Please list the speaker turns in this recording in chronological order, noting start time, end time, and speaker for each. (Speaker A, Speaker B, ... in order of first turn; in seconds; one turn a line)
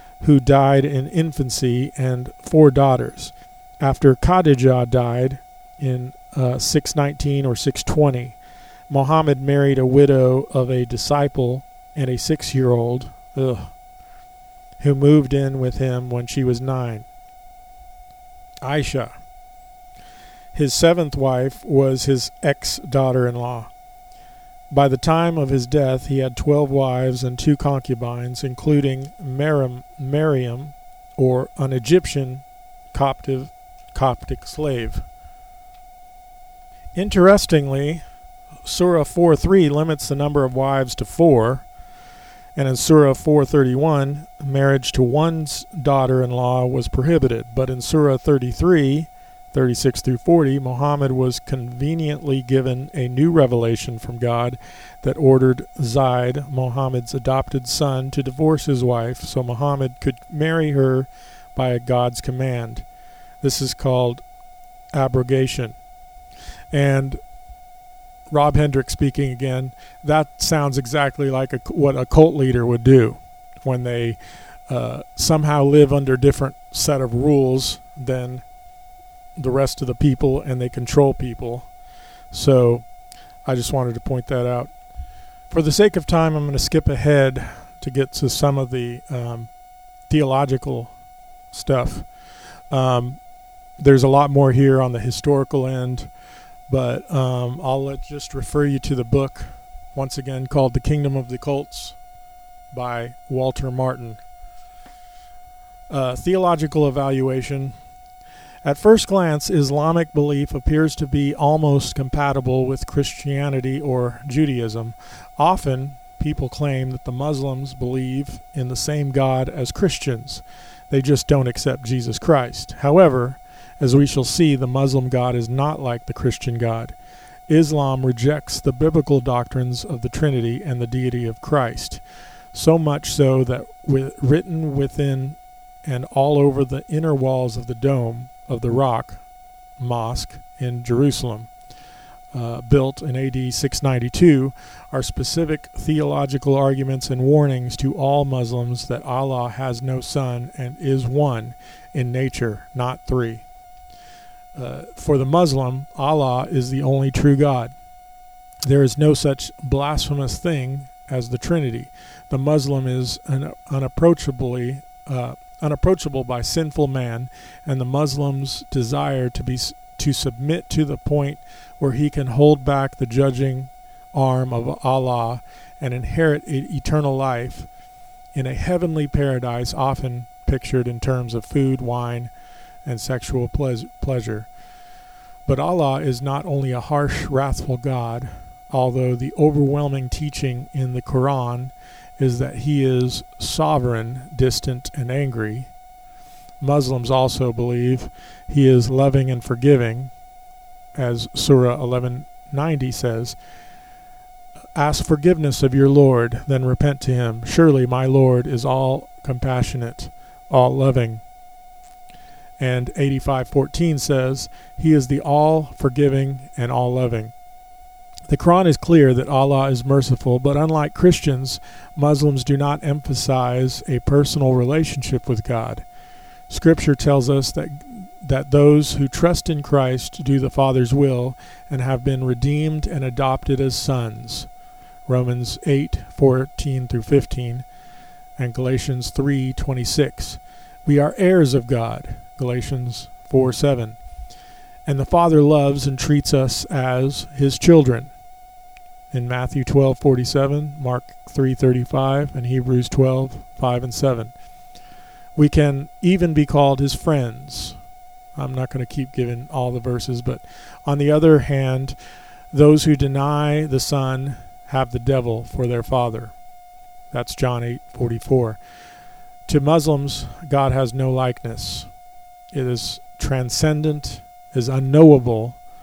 Speaker A: 0.2-8.3
Speaker A: 8.9-13.7
Speaker A: 14.8-17.1
Speaker A: 18.6-19.1
Speaker A: 20.5-23.7
Speaker A: 24.7-35.0
Speaker A: 36.9-38.0
Speaker A: 38.6-41.6
Speaker A: 42.5-62.8
Speaker A: 63.4-64.2
Speaker A: 64.9-65.8
Speaker A: 66.7-67.2
Speaker A: 68.3-74.2
Speaker A: 74.7-78.4
Speaker A: 79.4-81.7
Speaker A: 82.3-82.8
Speaker A: 83.4-84.7
Speaker A: 85.5-89.5
Speaker A: 90.1-90.9
Speaker A: 91.5-92.0
Speaker A: 92.7-93.2
Speaker A: 93.8-96.1
Speaker A: 96.7-102.0
Speaker A: 102.7-104.2
Speaker A: 105.9-107.7
Speaker A: 108.6-126.9
Speaker A: 127.5-132.0
Speaker A: 132.5-139.2
Speaker A: 139.8-141.5
Speaker A: 142.3-153.4
Speaker A: 154.5-157.7
Speaker A: 158.6-177.7
Speaker A: 178.3-182.3
Speaker A: 182.8-184.5
Speaker A: 185.4-195.7
Speaker A: 196.6-200.1
Speaker A: 200.9-203.3
Speaker A: 204.8-211.2
Speaker A: 212.6-217.3
Speaker A: 218.3-225.8
Speaker A: 226.5-234.5
Speaker A: 235.1-237.6
Speaker A: 238.4-244.0
Speaker A: 244.8-248.1
Speaker A: 249.1-254.3
Speaker A: 255.3-257.8
Speaker A: 258.4-261.9
Speaker A: 262.5-266.3
Speaker A: 267.1-268.6
Speaker A: 269.5-271.9
Speaker A: 272.5-275.6